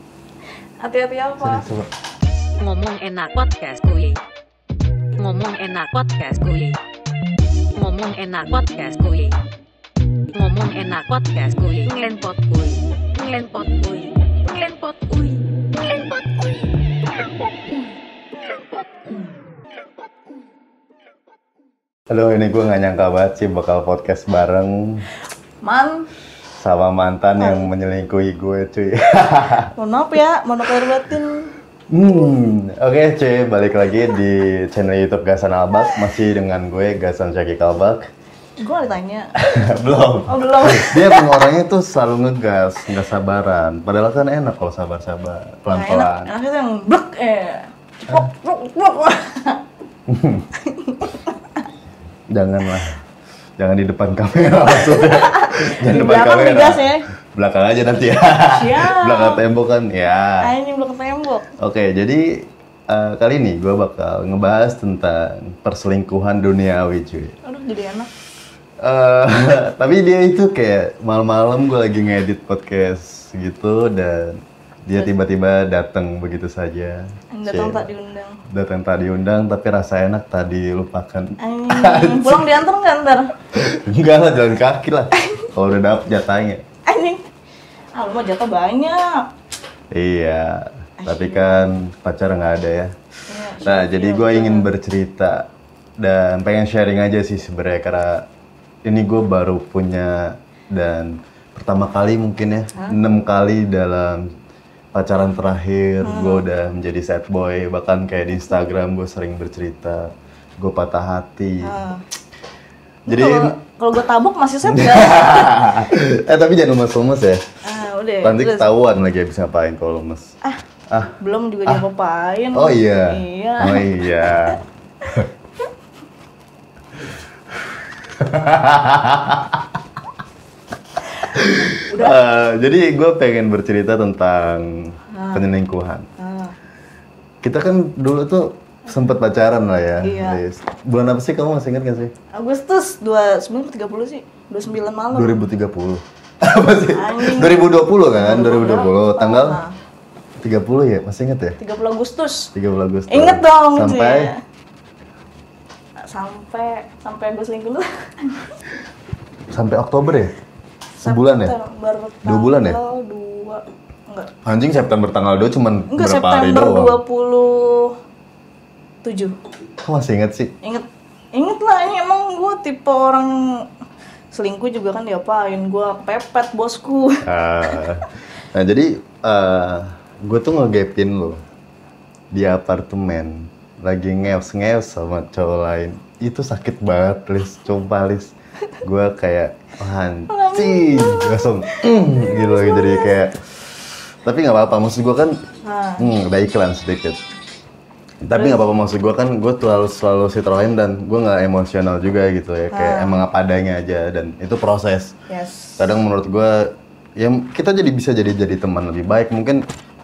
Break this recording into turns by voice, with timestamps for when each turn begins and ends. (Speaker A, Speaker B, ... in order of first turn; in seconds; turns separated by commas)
Speaker A: 0.8-1.7, Speaker B: 1.4-1.9, Speaker C: 2.6-4.2, Speaker C: 5.2-6.8, Speaker C: 7.8-9.4, Speaker C: 10.3-15.5, Speaker B: 22.1-25.1, Speaker A: 25.6-26.1, Speaker B: 26.6-29.7, Speaker A: 27.4-27.7, Speaker A: 29.8-31.5, Speaker B: 31.9-38.1, Speaker A: 38.6-39.3, Speaker B: 39.4-46.3, Speaker A: 40.3-41.5, Speaker A: 45.7-49.6, Speaker B: 50.1-50.5, Speaker A: 50.6-51.4, Speaker B: 52.3-53.0, Speaker B: 53.6-60.5, Speaker A: 54.7-57.0, Speaker A: 58.5-59.4, Speaker A: 60.4-61.5, Speaker B: 61.6-67.3, Speaker A: 67.4-68.1, Speaker B: 68.8-77.8, Speaker A: 77.3-78.4, Speaker B: 78.5-82.5, Speaker A: 81.4-83.3, Speaker B: 83.6-86.6, Speaker A: 86.9-87.2, Speaker A: 88.0-89.2, Speaker B: 89.9-92.9, Speaker A: 91.0-91.7, Speaker A: 93.3-94.7, Speaker B: 93.6-95.5, Speaker B: 96.0-98.3, Speaker B: 98.9-104.2, Speaker B: 104.9-111.8, Speaker A: 106.0-106.5, Speaker A: 111.6-112.0, Speaker A: 113.1-115.8, Speaker B: 113.1-113.5, Speaker B: 114.7-117.4, Speaker A: 117.7-118.7, Speaker B: 118.2-120.3, Speaker A: 121.2-124.5, Speaker B: 122.5-124.6, Speaker B: 127.5-129.8, Speaker A: 131.2-132.2, Speaker B: 131.3-136.1, Speaker A: 135.1-135.4, Speaker A: 136.2-136.5, Speaker B: 137.4-142.1, Speaker A: 140.0-140.4, Speaker A: 142.3-145.4, Speaker B: 145.1-149.6, Speaker A: 146.9-149.7, Speaker B: 150.4-151.6, Speaker A: 151.6-152.5, Speaker B: 152.5-154.3, Speaker A: 153.1-154.3, Speaker A: 156.1-158.5, Speaker B: 159.5-160.3, Speaker A: 161.0-164.3, Speaker B: 161.0-161.5, Speaker B: 162.2-162.8, Speaker B: 164.4-167.0, Speaker A: 165.9-167.9, Speaker A: 169.0-169.3, Speaker B: 169.8-170.5, Speaker A: 170.6-173.6, Speaker A: 174.3-177.8, Speaker B: 177.2-181.4, Speaker B: 182.3-195.4, Speaker A: 190.3-193.1, Speaker A: 195.6-196.1, Speaker B: 196.0-197.2, Speaker B: 198.2-205.1, Speaker A: 198.3-198.6, Speaker A: 202.7-203.2, Speaker A: 205.3-205.9, Speaker B: 205.8-209.6